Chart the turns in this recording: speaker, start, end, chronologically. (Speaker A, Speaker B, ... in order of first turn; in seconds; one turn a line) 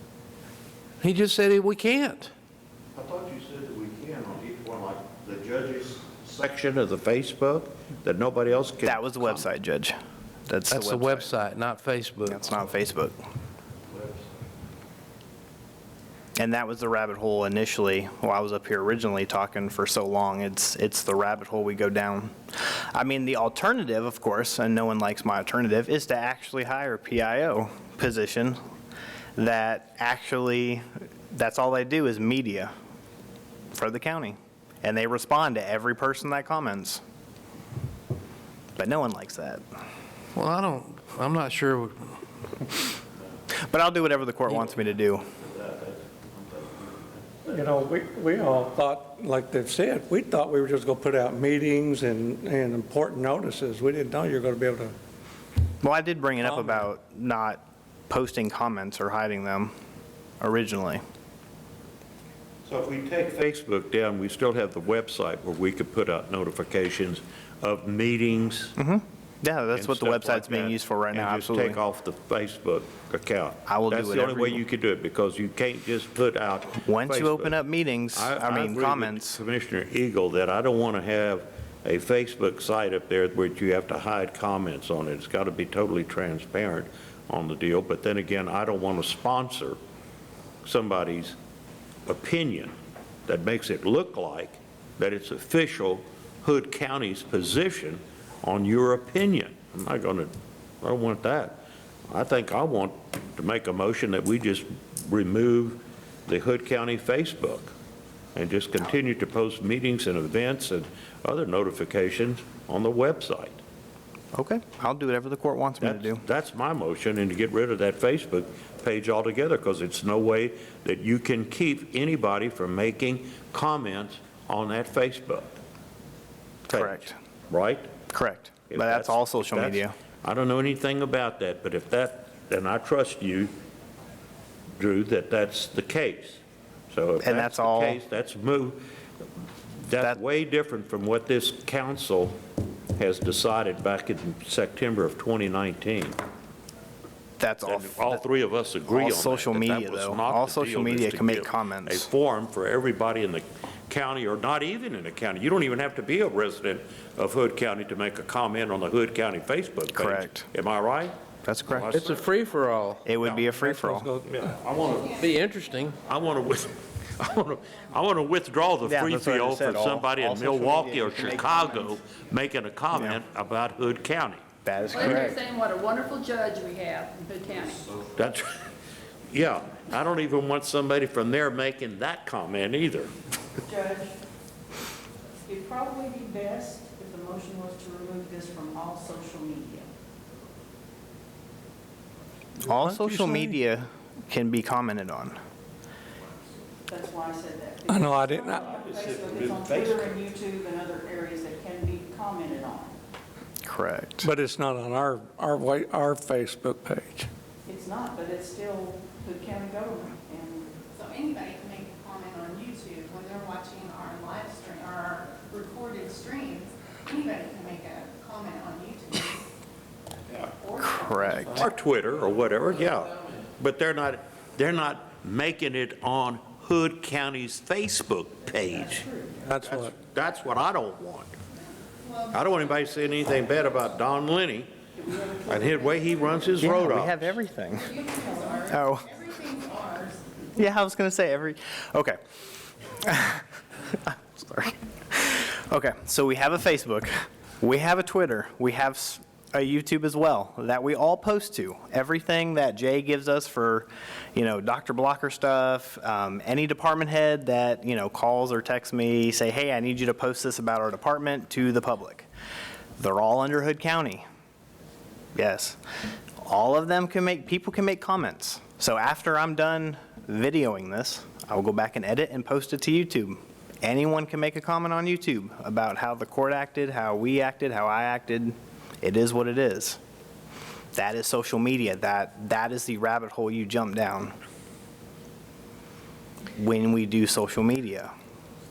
Speaker A: 1.0-2.3
Speaker B: 2.9-9.4
Speaker C: 8.8-11.3
Speaker A: 10.7-12.6
Speaker C: 12.2-13.2
Speaker B: 13.9-14.3
Speaker C: 16.4-28.6
Speaker C: 29.4-32.7
Speaker C: 33.7-37.0
Speaker C: 38.8-39.6
Speaker A: 40.3-41.9
Speaker C: 43.6-45.3
Speaker B: 45.4-47.5
Speaker D: 47.5-54.9
Speaker C: 55.8-59.7
Speaker D: 56.5-56.8
Speaker C: 60.4-61.0
Speaker B: 62.6-68.8
Speaker C: 68.8-71.8
Speaker B: 69.7-77.5
Speaker C: 73.7-74.6
Speaker C: 76.8-79.4
Speaker B: 78.1-89.8
Speaker B: 90.6-91.3
Speaker B: 92.1-92.7
Speaker B: 93.3-107.7
Speaker B: 108.3-113.6
Speaker C: 114.3-116.2
Speaker B: 115.8-125.5
Speaker C: 126.7-127.2
Speaker B: 126.7-127.9
Speaker C: 128.1-129.9
Speaker B: 128.7-133.5
Speaker B: 134.8-138.8
Speaker C: 137.2-138.0
Speaker B: 139.8-142.4
Speaker B: 143.0-146.2
Speaker C: 147.4-148.2
Speaker B: 147.6-162.2
Speaker C: 148.9-152.1
Speaker C: 159.9-160.5
Speaker C: 161.4-161.9
Speaker A: 161.9-163.1
Speaker C: 163.0-164.1
Speaker D: 163.4-164.6
Speaker B: 164.3-165.2
Speaker E: 164.7-165.4
Speaker A: 165.2-166.0
Speaker B: 166.0-174.4
Speaker C: 168.8-172.0
Speaker C: 172.9-173.2
Speaker C: 174.6-175.4
Speaker F: 174.9-177.8
Speaker B: 175.0-175.3
Speaker B: 178.1-178.6
Speaker B: 179.3-183.1
Speaker G: 183.6-184.2
Speaker G: 185.4-189.9
Speaker C: 192.6-195.4
Speaker D: 192.6-193.5
Speaker G: 196.9-203.0
Speaker D: 197.9-198.8
Speaker B: 198.6-200.3
Speaker C: 203.6-204.3
Speaker D: 204.2-207.3
Speaker G: 207.7-210.7
Speaker E: 210.9-219.5
Speaker E: 220.4-221.7
Speaker C: 220.8-221.7
Speaker B: 221.5-231.3
Speaker G: 228.9-229.4
Speaker D: 229.4-229.9
Speaker E: 232.0-233.8
Speaker B: 232.3-234.7
Speaker G: 234.9-235.9
Speaker B: 235.4-237.4
Speaker E: 235.8-236.7
Speaker C: 236.6-237.9
Speaker E: 237.7-240.3
Speaker G: 238.2-238.6
Speaker C: 238.7-239.1
Speaker C: 240.6-242.2
Speaker C: 243.0-243.4
Speaker C: 244.3-262.3
Speaker C: 263.0-264.2
Speaker C: 265.3-265.8
Speaker C: 266.4-280.0
Speaker C: 280.9-284.3
Speaker C: 286.6-288.1